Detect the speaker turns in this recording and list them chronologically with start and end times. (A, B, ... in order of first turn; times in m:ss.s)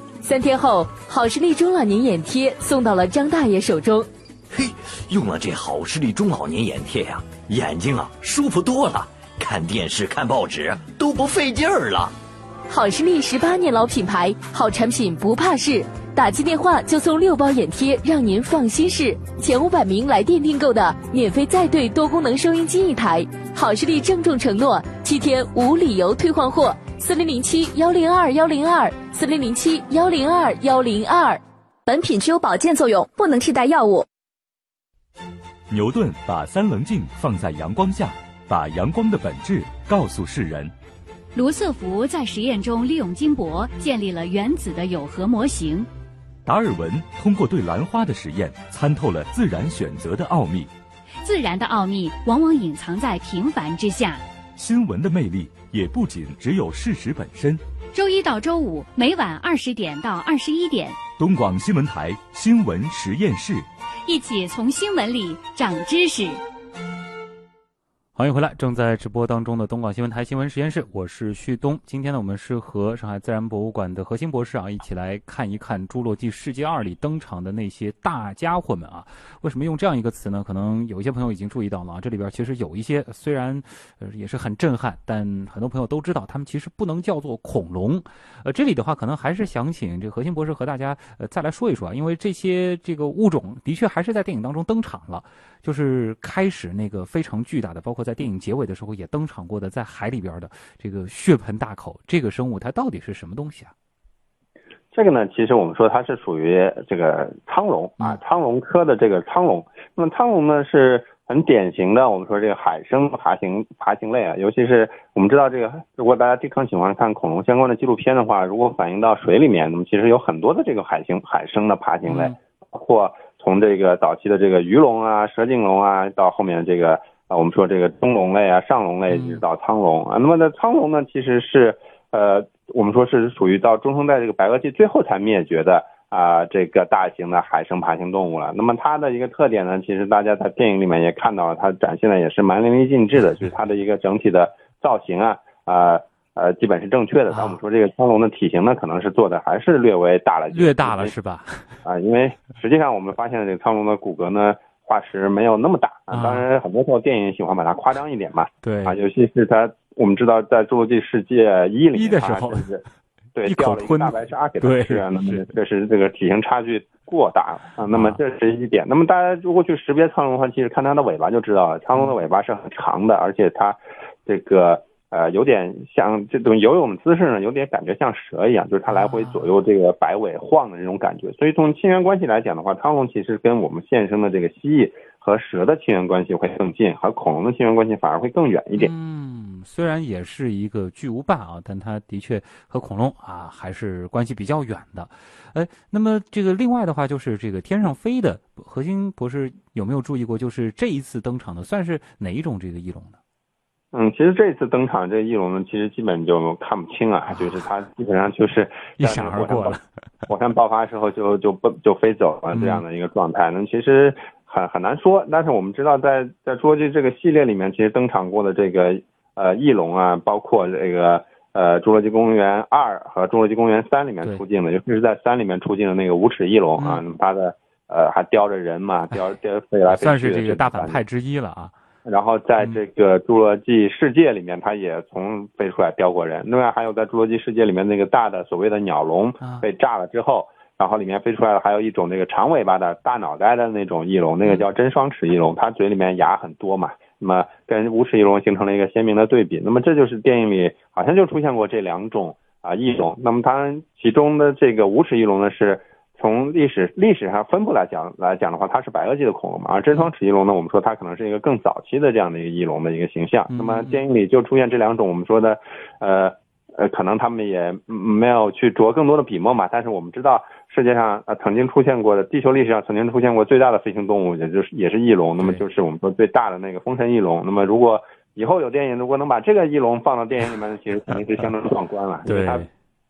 0:00.2-0:04.1 A
0:04.5-0:12.1 B
0:12.7-0:31.4 A
0:31.9-0:34.0 C
0:35.7-0:40.7 D
0:41.4-0:45.9 E
0:46.4-0:50.7 D
0:51.2-0:54.2 E
0:54.6-0:57.6 D
0:57.9-1:01.0 E
1:01.2-1:03.7 D
1:04.0-1:06.4 E
1:08.2-1:43.7 F
1:44.9-2:31.1 G
2:02.0-2:02.4 F
2:09.1-2:09.4 F
2:27.3-2:27.6 F
2:30.5-2:31.8 F
2:31.8-2:42.8 G
2:36.1-2:36.4 F
2:38.6-2:39.0 F
2:41.9-2:42.6 F
2:43.4-3:08.9 G
2:43.4-2:45.5 F
2:47.9-2:48.2 F
2:58.9-2:59.5 F
3:08.8-3:23.2 F
3:23.9-3:51.0 G
3:29.0-3:29.8 F
3:32.5-3:32.8 F
3:49.9-3:51.7 F
3:52.0-4:42.7 G
4:23.5-4:24.0 F
4:42.2-4:42.7 F